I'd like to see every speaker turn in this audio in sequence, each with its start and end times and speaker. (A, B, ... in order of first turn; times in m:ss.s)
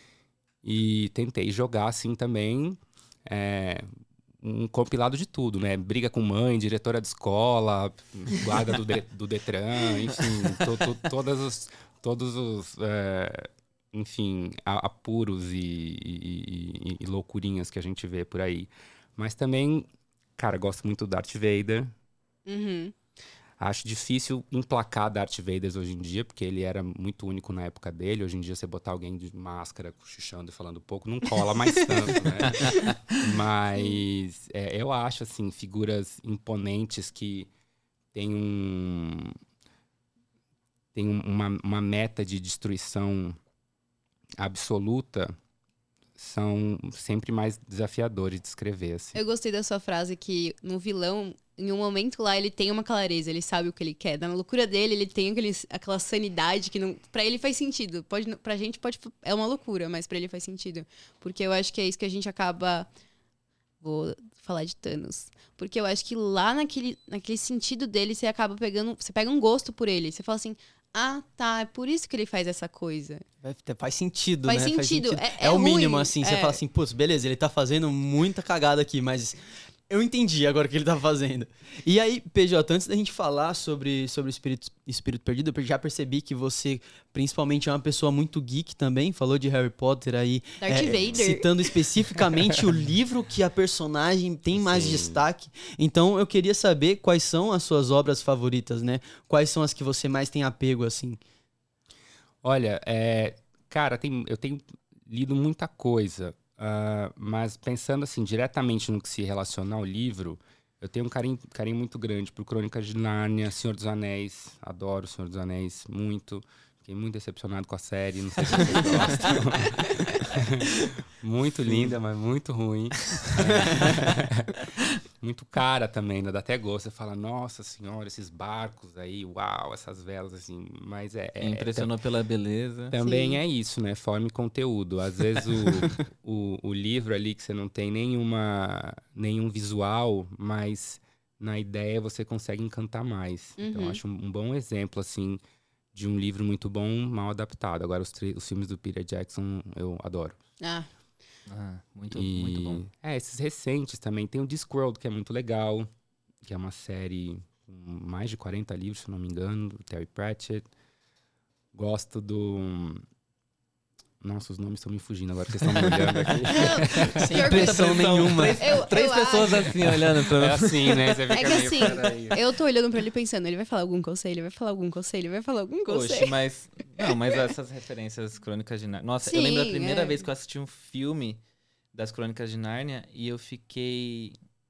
0:00.6-0:03.8 A
0:04.4-0:21.9 A
0:22.4-0:22.9 B
0:23.6-0:37.5 A
0:38.1-0:39.4 A
0:40.9-0:43.4 A
0:44.4-0:45.4 A
0:46.2-0:49.2 A
0:49.1-1:02.9 B
1:03.8-1:13.2 B
1:13.4-1:19.4 C
1:14.4-1:16.6 B
1:19.9-1:41.2 C
1:30.6-1:31.5 B
1:34.5-1:35.2 A
1:42.4-2:04.6 A
2:03.3-2:04.0 D
2:05.2-2:11.9 A
2:11.4-2:12.9 D
2:12.9-2:25.4 A
2:12.9-2:13.4 B
2:23.6-2:24.0 B
2:25.9-2:30.4 A
2:30.6-2:30.9 B
2:31.4-2:32.8 D
2:32.1-2:35.9 A
2:36.4-2:40.7 A
2:41.7-2:43.0 A
2:44.2-2:47.2 A
2:46.5-2:48.0 B
2:46.8-2:48.8 C
2:47.2-2:52.4 D
2:48.6-2:49.7 B
2:50.2-2:52.3 A
2:51.3-2:56.3 B
2:55.9-3:01.4 D
2:59.2-3:00.2 B
3:01.9-3:04.4 D